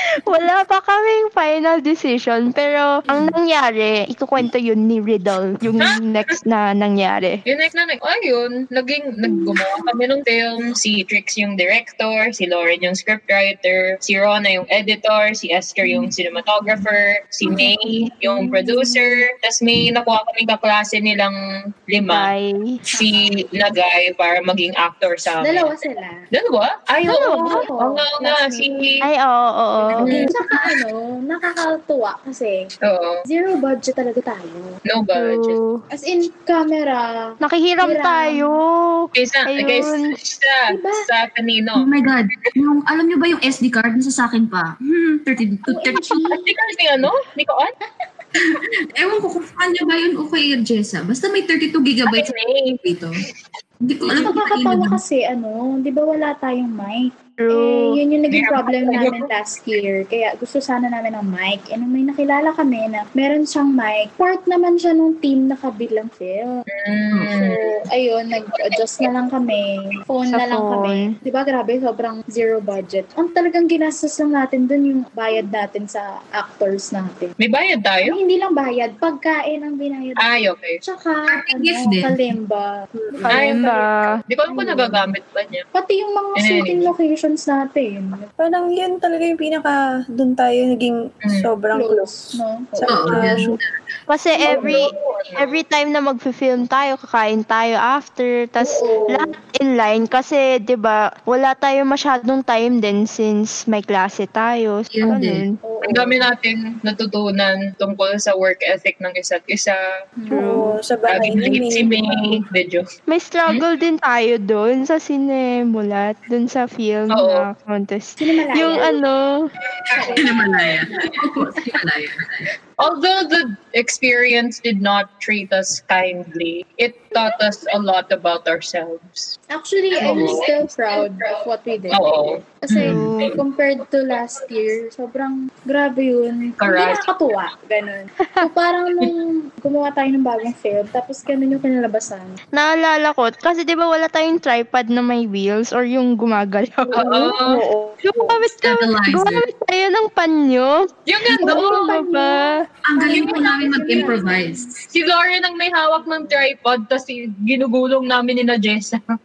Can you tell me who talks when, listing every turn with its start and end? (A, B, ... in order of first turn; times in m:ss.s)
0:00.2-0:07.4 A
0:07.4-0:21.4 B
0:17.4-0:19.2 A
0:21.9-0:22.3 B
0:22.0-0:22.8 A
0:22.9-0:25.8 B
0:22.9-0:23.3 C
0:25.4-0:26.2 C
0:26.3-0:29.0 B
0:27.0-0:27.6 A
0:27.5-0:28.9 C
0:29.0-0:30.3 A
0:29.8-0:32.6 C
0:30.0-0:30.3 B
0:32.8-0:33.2 B
0:33.3-0:34.8 C
0:34.9-0:35.6 B
0:35.1-0:35.8 A
0:35.9-0:38.6 C
0:37.4-0:40.1 A
0:39.1-0:41.9 B
0:40.7-0:41.1 C
0:41.7-0:46.3 D
0:45.6-0:46.5 C
0:46.2-0:47.7 B
0:48.4-0:53.2 D
0:52.1-0:52.8 B
0:53.8-0:55.0 D
0:54.0-0:54.4 B
0:54.1-1:06.6 C
0:57.4-0:57.9 A
0:58.3-0:59.3 B
1:06.7-1:07.8 B
1:07.3-1:17.3 C
1:08.7-1:09.0 B
1:10.3-1:11.1 A
1:17.4-1:18.2 B
1:18.0-1:25.0 C
1:20.2-1:20.8 B
1:21.3-1:22.2 D
1:23.2-1:24.2 A
1:23.3-1:23.7 B
1:24.3-1:25.6 B
1:25.7-1:28.3 C
1:26.4-1:26.9 B
1:28.4-1:33.6 E
1:31.2-1:31.5 B
1:31.7-1:33.6 C
1:32.8-1:33.7 D
1:34.1-1:45.5 A
1:34.3-1:34.9 C
1:34.5-1:35.6 B
1:38.6-1:39.3 C
1:44.9-1:45.4 D
1:45.6-1:46.3 C
1:45.8-1:49.8 B
1:50.2-1:50.8 C
1:50.3-1:52.4 E
1:51.1-1:52.8 B
1:53.1-1:59.5 A
1:57.1-1:57.5 B
1:58.2-1:58.9 C
1:59.7-2:00.4 B
1:59.9-2:00.6 C
2:00.1-2:02.5 D
2:02.8-2:09.3 B
2:09.5-2:22.4 C
2:10.0-2:10.7 B
2:10.1-2:10.4 D
2:11.9-2:13.4 B
2:12.8-2:13.4 A
2:16.6-2:17.3 B
2:22.5-2:27.4 A
2:26.9-2:27.6 B
2:27.4-2:28.4 E
2:28.0-2:30.8 A
2:28.6-2:29.4 D
2:31.0-2:31.9 B
2:31.2-2:34.7 C
2:31.4-2:32.5 A
2:32.8-2:34.8 D
2:33.1-2:34.0 B
2:34.9-2:39.0 B